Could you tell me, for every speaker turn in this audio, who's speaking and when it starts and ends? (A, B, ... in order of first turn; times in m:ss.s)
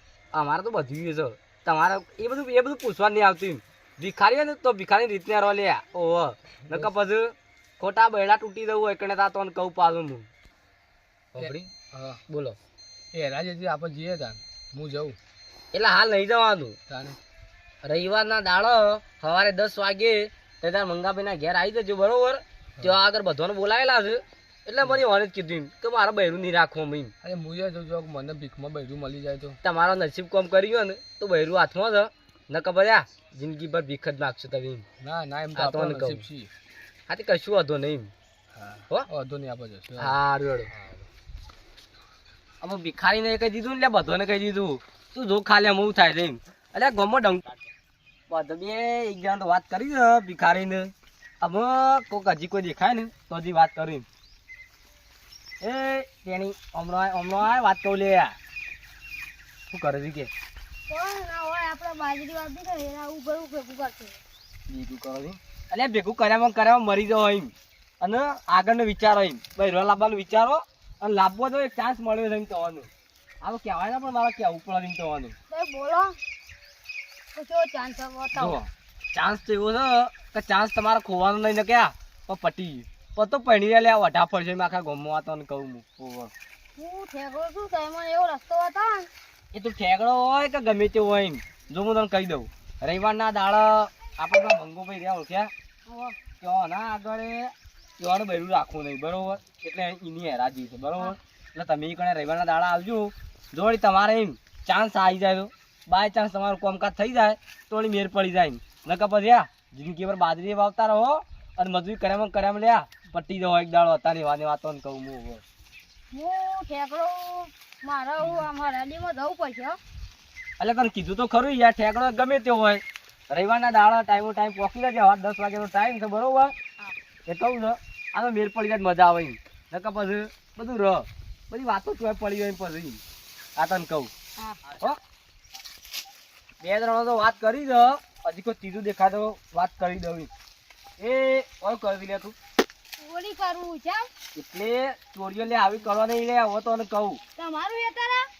0:00.3-0:10.3 A
0:11.3-0:11.7 A
0:11.4-0:12.2 B
0:12.3-0:12.6 A
0:13.1-0:15.2 B
0:15.7-0:16.8 A
0:16.9-0:17.2 B
0:17.8-0:27.1 A
0:27.2-0:29.6 B
0:29.6-0:34.8 A
0:35.0-0:36.5 B
0:35.5-0:36.2 A
0:37.1-0:38.1 A
0:38.6-0:40.2 B
0:40.0-0:40.7 A
0:40.7-0:41.0 B
0:42.6-0:47.6 A
0:48.3-0:54.1 A
0:55.6-0:58.3 A
0:59.7-1:00.3 A
1:00.9-1:04.2 C
1:04.7-1:12.9 A
1:13.4-1:15.3 A
1:15.5-1:16.2 C
1:17.3-1:18.6 C
1:18.3-1:18.6 A
1:19.1-1:26.3 A
1:26.8-1:29.1 C
1:29.5-1:35.5 A
1:35.9-1:36.2 C
1:36.4-1:55.4 A
1:56.1-1:59.8 C
2:00.6-2:06.5 A
2:07.3-2:13.0 A
2:13.6-2:14.1 A
2:14.7-2:15.0 A
2:16.6-2:20.3 A
2:21.0-2:22.3 A
2:23.0-2:24.1 C
2:24.3-2:27.2 A
2:27.4-2:28.3 C